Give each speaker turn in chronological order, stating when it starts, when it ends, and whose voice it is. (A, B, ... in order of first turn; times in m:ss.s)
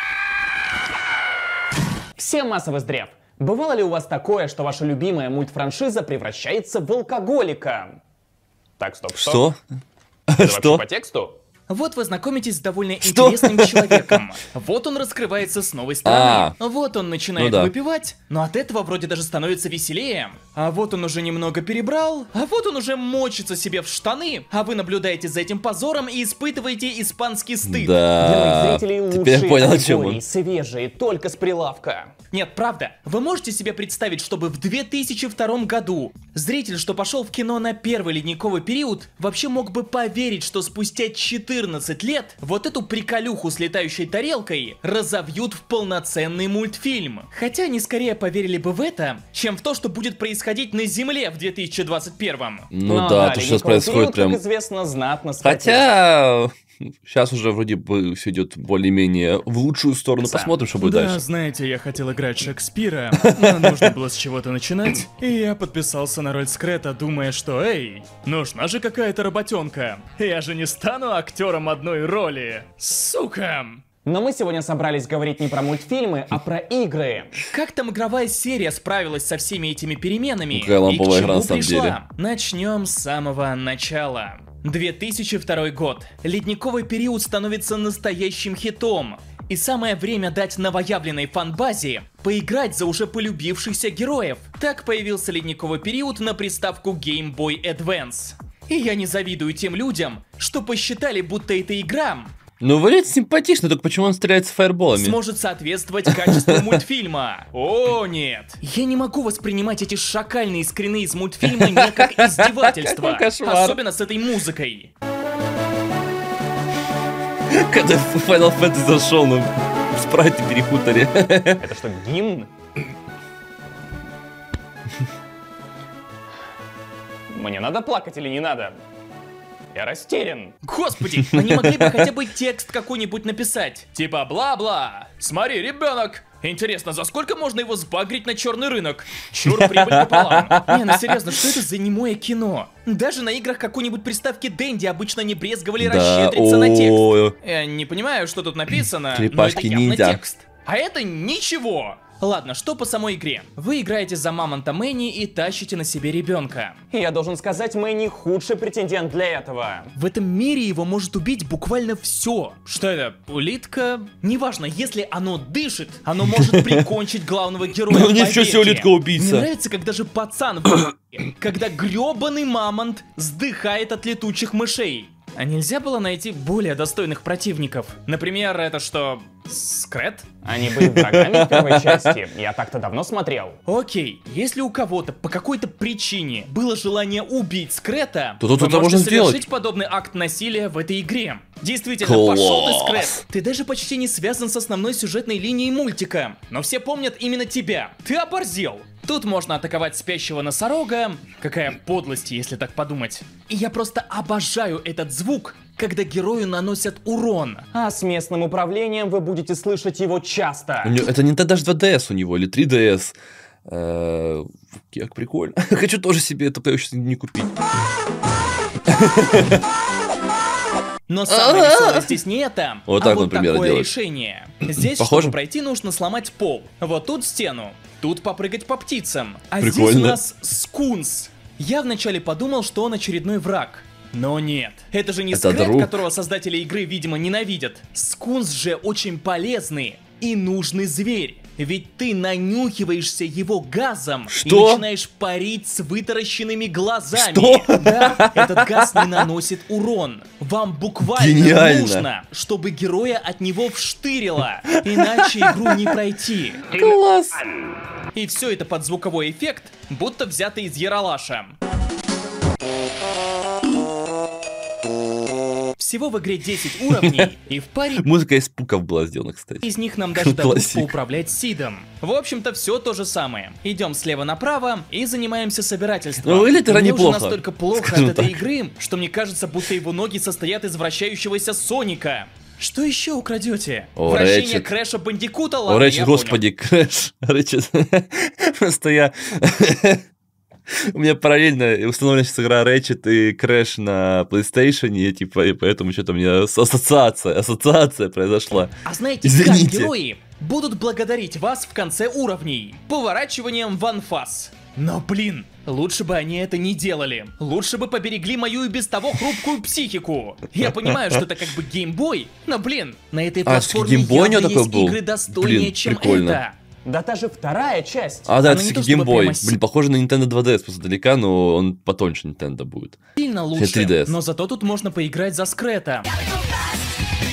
0:02.2-0:08.0 A
0:08.8-0:09.4 A
0:09.1-0:09.6 B
0:10.3-0:10.8 B
0:10.4-0:11.3 A
0:11.7-0:28.0 C
0:13.0-0:14.2 B
0:16.0-0:16.6 B
0:17.4-0:17.7 B
0:27.6-0:30.2 B
0:28.2-0:31.4 A
0:29.9-0:52.7 C
0:52.7-0:54.4 B
0:52.9-0:55.6 A
0:55.4-0:56.5 B
0:57.0-1:01.2 B
1:00.3-1:13.8 C
1:03.2-1:03.9 B
1:14.1-1:17.3 A
1:17.4-1:42.3 C
1:20.5-1:22.0 B
1:42.6-1:45.2 B
1:44.9-1:54.9 C
1:46.1-1:46.8 B
1:51.4-1:53.8 B
1:57.5-2:01.7 B
2:01.6-2:02.5 A
2:07.3-2:08.8 A
2:09.7-2:10.6 A
2:10.6-2:36.8 C
2:11.2-2:12.1 B
2:19.5-2:21.4 B
2:25.8-2:27.4 B
2:29.1-2:30.2 B
2:36.9-2:39.9 A
2:40.0-3:00.3 C
2:46.3-2:46.9 B
2:47.9-2:49.5 B
3:00.4-3:03.6 A
3:00.7-3:02.2 B
3:03.7-3:27.7 C
3:08.4-3:09.4 B
3:12.0-3:13.2 B
3:27.7-3:31.0 A
3:30.8-3:33.2 B
3:33.7-3:37.6 B
3:38.9-3:39.6 B
3:41.1-4:16.8 C
3:41.3-3:42.2 B
3:42.9-3:43.9 B
3:44.7-3:45.4 B
3:49.6-3:50.2 B
3:55.3-3:56.0 B
4:04.3-4:04.8 B
4:07.1-4:09.2 B
4:11.0-4:12.1 B
4:14.9-4:16.0 B
4:16.7-4:17.5 B
4:18.1-4:21.6 C
4:25.8-4:28.1 C
4:28.0-4:30.9 B
4:29.6-4:46.4 C
4:36.2-4:38.4 B
4:44.0-4:44.7 B
4:45.7-4:50.0 B
4:50.9-4:58.7 B
4:58.8-5:16.6 C
4:59.2-4:59.9 B
5:10.6-5:11.0 B
5:13.4-5:16.4 B
5:16.9-5:18.3 A
5:18.3-5:23.0 B
5:18.4-5:19.6 C
5:23.2-5:26.1 C
5:23.5-5:24.2 B